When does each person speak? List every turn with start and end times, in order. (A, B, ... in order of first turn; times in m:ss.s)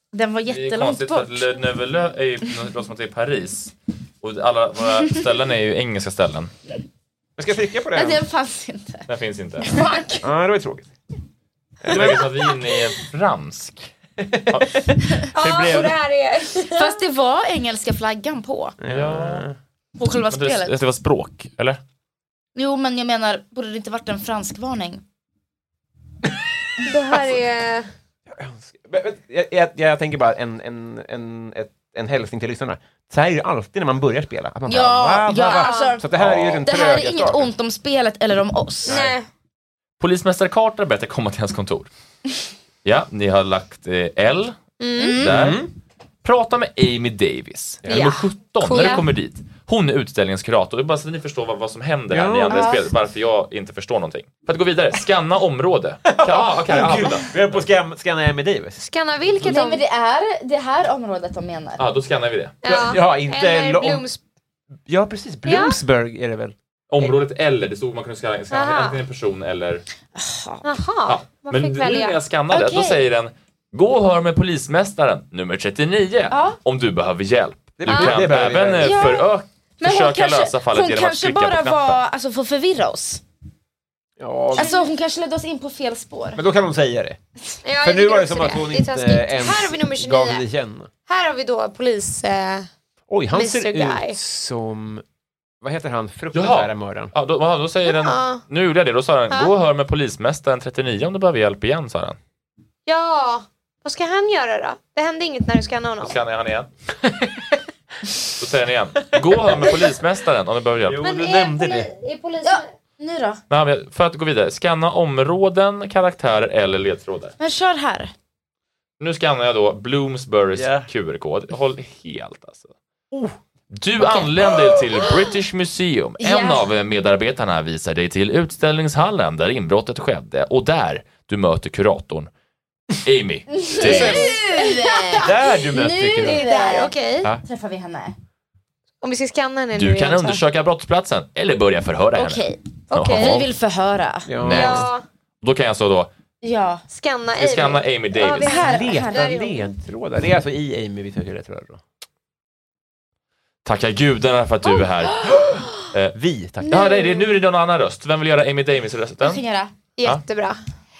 0:00.1-0:01.6 A
0:00.5-0:06.5 B
0:07.4-0:08.2 C
0:07.9-0:09.1 A
0:09.1-0:09.7 B
0:09.7-0:10.2 D
0:10.2-0:10.9 C
0:11.8-0:12.3 C
0:11.9-0:13.9 B
0:14.2-0:14.6 C
0:14.5-0:15.8 B
0:15.3-0:17.0 D
0:15.3-0:16.0 C
0:16.7-0:18.8 A
0:18.8-0:19.6 C
0:18.9-0:19.4 B
0:20.0-0:20.8 A
0:20.3-0:21.8 B
0:22.6-0:25.0 A
0:26.8-0:27.9 D
0:28.3-0:37.5 C
0:34.7-0:36.1 A
0:35.4-0:36.0 D
0:36.2-0:36.6 B
0:36.6-0:39.0 A
0:38.9-0:39.2 C
0:38.9-0:39.3 D
0:40.0-0:41.9 B
0:42.8-0:44.6 B
0:44.8-0:45.2 D
0:45.0-0:45.5 A
0:45.2-0:45.6 B
0:45.2-0:45.7 C
0:46.2-0:57.6 B
0:47.8-0:48.2 C
0:47.9-0:49.1 D
0:52.1-0:52.8 C
0:52.5-0:52.9 A
0:56.1-0:58.8 C
0:58.8-0:59.8 D
0:59.4-1:01.8 A
1:01.8-1:02.6 B
1:02.6-1:04.2 D
1:02.6-1:04.0 C
1:04.9-1:07.1 C
1:05.5-1:05.8 D
1:06.9-1:09.8 B
1:08.5-1:09.0 D
1:10.2-1:10.7 A
1:10.6-1:12.2 D
1:11.1-1:22.0 B
1:12.5-1:13.0 A
1:16.3-1:16.6 A
1:17.8-1:19.2 C
1:17.9-1:18.2 A
1:18.8-1:19.3 A
1:19.8-1:23.2 A
1:24.2-1:24.7 C
1:24.6-1:26.4 A
1:24.6-1:24.9 D
1:26.4-1:27.2 C
1:27.6-1:30.4 D
1:27.8-1:30.9 C
1:31.1-1:32.7 D
1:33.1-1:35.0 C
1:33.3-1:34.2 D
1:35.6-1:37.1 C
1:36.3-1:42.2 B
1:37.8-1:38.4 D
1:42.9-1:46.2 D
1:46.0-1:46.7 B
1:47.0-1:47.6 C
1:48.4-1:51.0 B
1:50.8-1:51.9 C
1:51.0-1:52.7 D
1:52.4-1:53.4 A
1:53.5-1:57.4 B
1:57.4-1:58.1 A
1:59.0-2:02.7 B
2:00.5-2:00.9 C
2:03.7-2:12.3 B
2:04.0-2:04.5 A
2:06.2-2:06.7 A
2:13.0-2:14.3 B
2:13.5-2:18.2 A
2:13.8-2:14.4 C
2:13.9-2:15.3 D
2:15.2-2:16.4 C
2:16.2-2:17.3 D
2:19.0-2:20.4 D
2:19.8-2:23.5 B
2:22.2-2:24.3 A
2:22.9-2:23.4 D
2:24.3-2:24.9 C
2:24.4-2:24.9 B
2:24.4-2:25.0 D
2:25.4-2:26.1 B
2:26.4-2:26.8 A
2:26.9-2:29.7 D
2:27.4-2:28.6 B
2:28.3-2:29.4 A
2:28.5-2:31.8 C
2:33.6-2:35.3 B
2:35.3-2:35.6 C
2:35.9-2:39.4 B
2:36.2-2:36.8 C
2:36.7-2:37.3 D
2:39.2-2:39.7 A
2:40.0-2:40.6 D